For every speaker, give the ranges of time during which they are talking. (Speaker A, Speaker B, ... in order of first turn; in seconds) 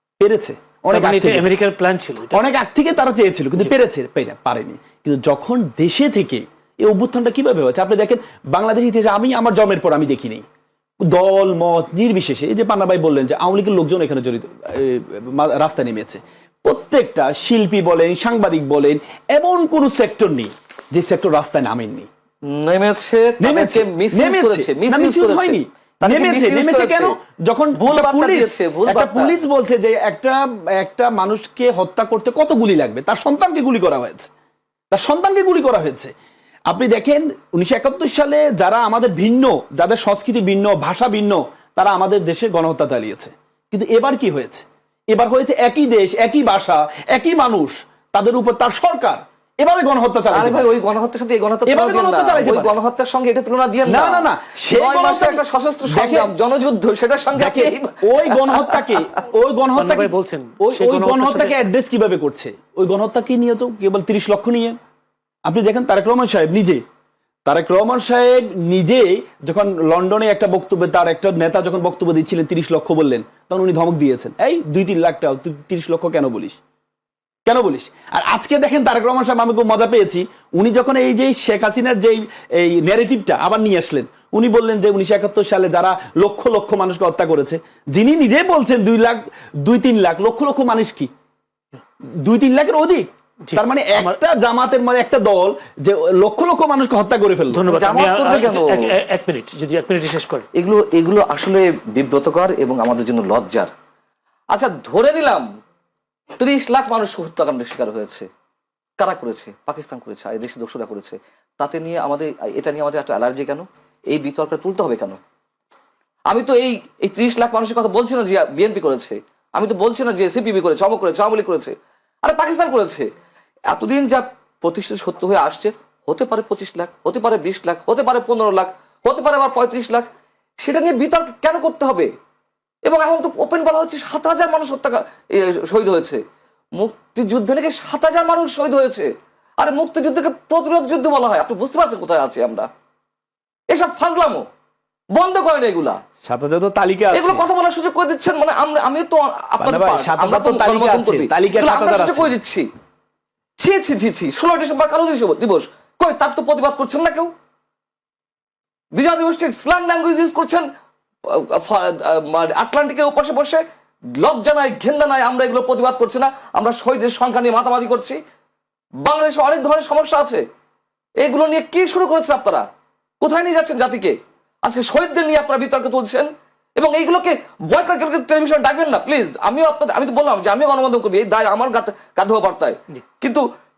Speaker A: 0.2-1.5, 2.3-10.4, 11.1-22.1, 23.4-34.3, 34.9-36.1, 36.7-50.7, 51.6-52.7, 53.9-56.3, 57.3-64.7, 65.5-66.8, 67.5-76.6, 77.5-91.1, 92.2-97.7, 146.2-147.4, 149.6-152.3
Speaker B: 0.9-2.4, 59.7-61.7, 93.4-94.1, 97.5-100.5
Speaker C: 22.4-27.1, 27.8-29.3, 50.3-58.9, 97.7-98.9, 100.5-103.7, 104.5-105.5, 106.4-108.3, 109.0-115.2, 116.3-121.7, 122.2-123.1, 123.7-130.1, 130.6-132.1, 132.9-136.2, 136.8-142.7, 143.7-144.4, 145.1-146.0, 147.1-152.7, 153.6-157.3, 158.9-160.7, 161.3-163.6, 164.2-168.2, 169.0-170.4, 171.2-172.6, 173.2-183.4